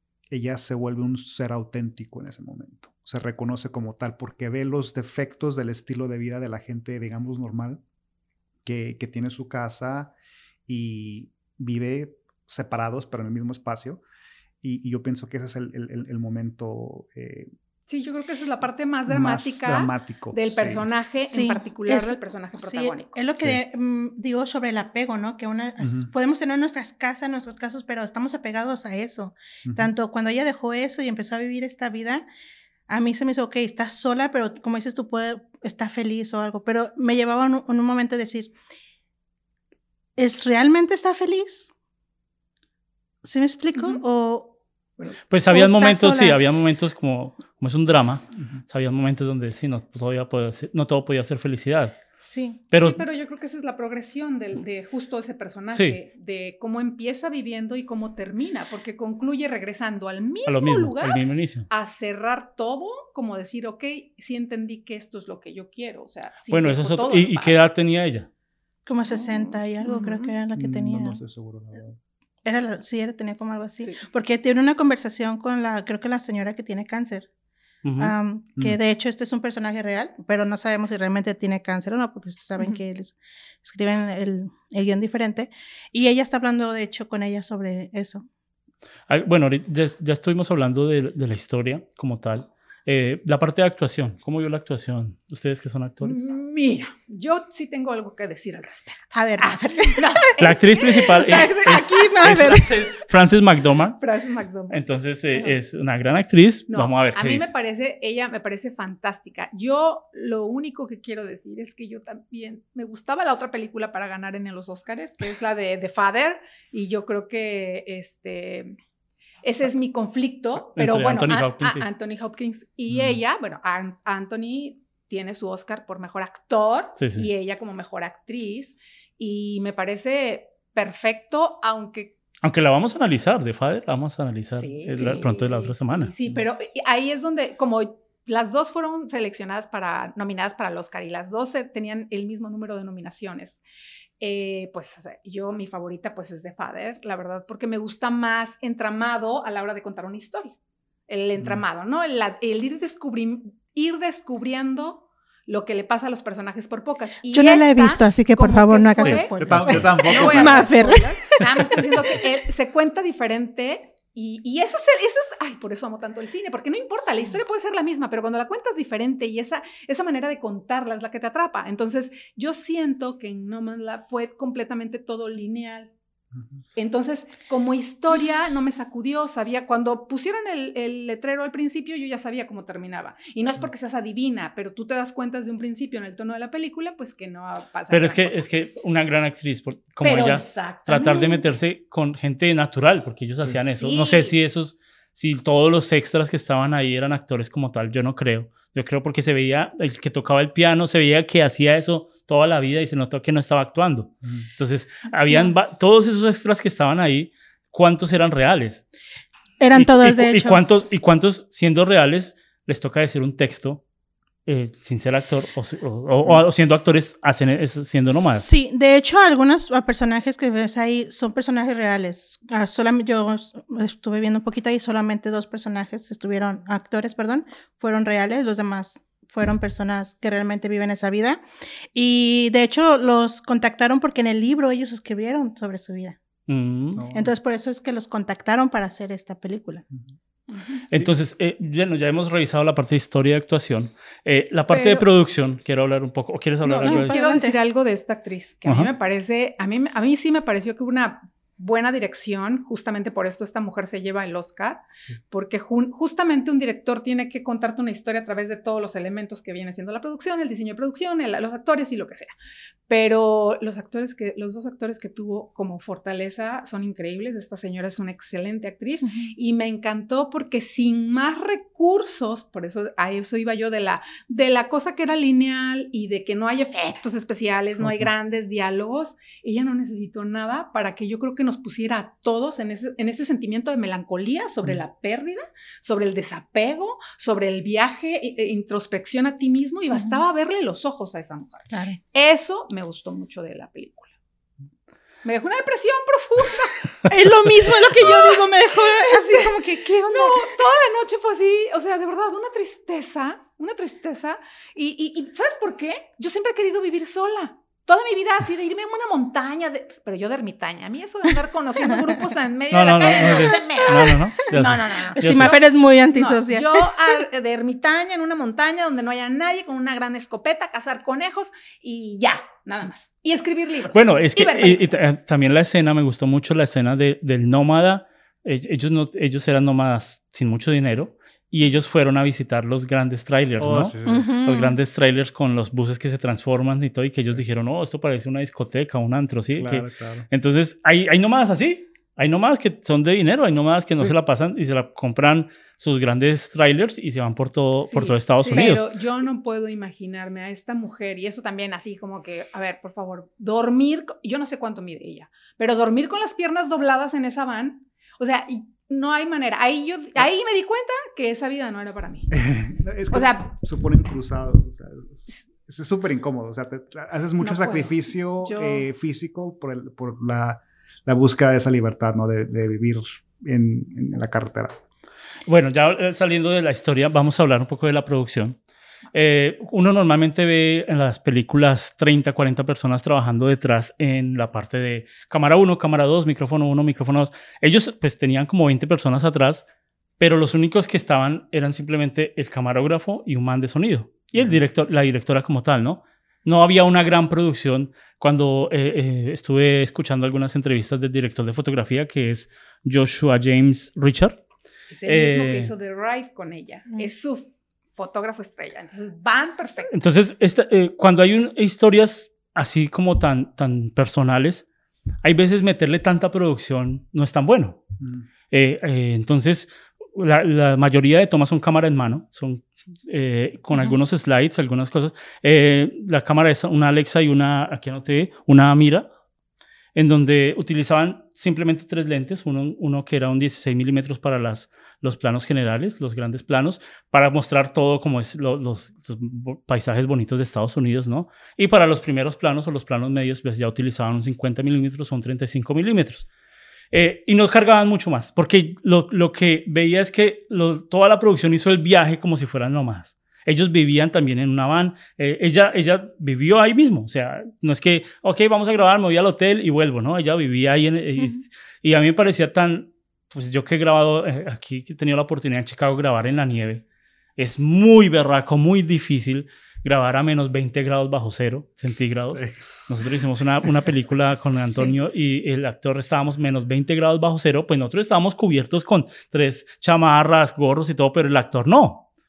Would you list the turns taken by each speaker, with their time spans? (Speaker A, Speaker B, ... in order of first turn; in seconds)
Speaker A: 0.3-7.8, 8.6-10.1, 10.7-14.0, 14.6-17.5, 19.1-21.0, 25.8-26.1, 29.6-29.9, 70.5-72.0, 122.9-123.2, 159.4-161.0, 236.9-237.3, 277.8-278.1, 333.6-334.4, 339.5-340.2, 362.3-374.8, 394.4-394.6, 418.0-418.3, 472.3-472.6
Speaker B: 17.9-23.2, 43.8-44.0, 52.7-67.7, 69.1-70.3, 96.0-101.4, 104.0-104.8, 106.7-118.8, 119.4-132.1, 134.5-143.6, 144.2-150.5, 151.1-175.9, 176.8-188.5, 190.0-191.4, 193.5-194.3, 240.5-240.8, 244.7-245.1, 246.6-262.3, 262.9-294.1, 295.2-296.8, 298.0-325.0, 347.8-362.3, 363.1-363.5, 367.4-368.9, 404.9-409.9
Speaker C: 21.2-32.2, 32.9-38.5, 40.2-41.7, 43.2-44.5, 45.5-46.4, 52.2-52.6, 68.9-71.2, 72.4-77.3, 78.0-88.2, 99.1-102.9, 157.3-161.8, 209.6-210.6, 218.1-231.4, 231.9-236.2, 237.1-239.8, 246.8-247.6, 269.0-269.3, 289.9-290.2, 291.7-292.0, 297.1-300.5, 315.1-317.2, 334.1-334.8
Speaker D: 45.3-52.0, 52.7-53.0, 55.7-56.0, 60.5-61.7, 66.5-68.3, 77.8-78.1, 89.1-96.2, 100.4-104.0, 104.7-107.5, 120.8-121.8, 127.0-127.2, 132.4-136.1, 187.9-208.9, 209.7-213.8, 214.4-218.5, 236.5-237.1, 240.9-247.2, 248.6-248.9, 312.7-315.6, 323.9-348.9, 375.4-378.6, 379.1-389.6, 390.2-404.4, 405.0-405.7, 409.9-414.7, 415.2-417.8, 418.5-429.1, 429.9-446.3, 446.9-466.8, 467.4-482.1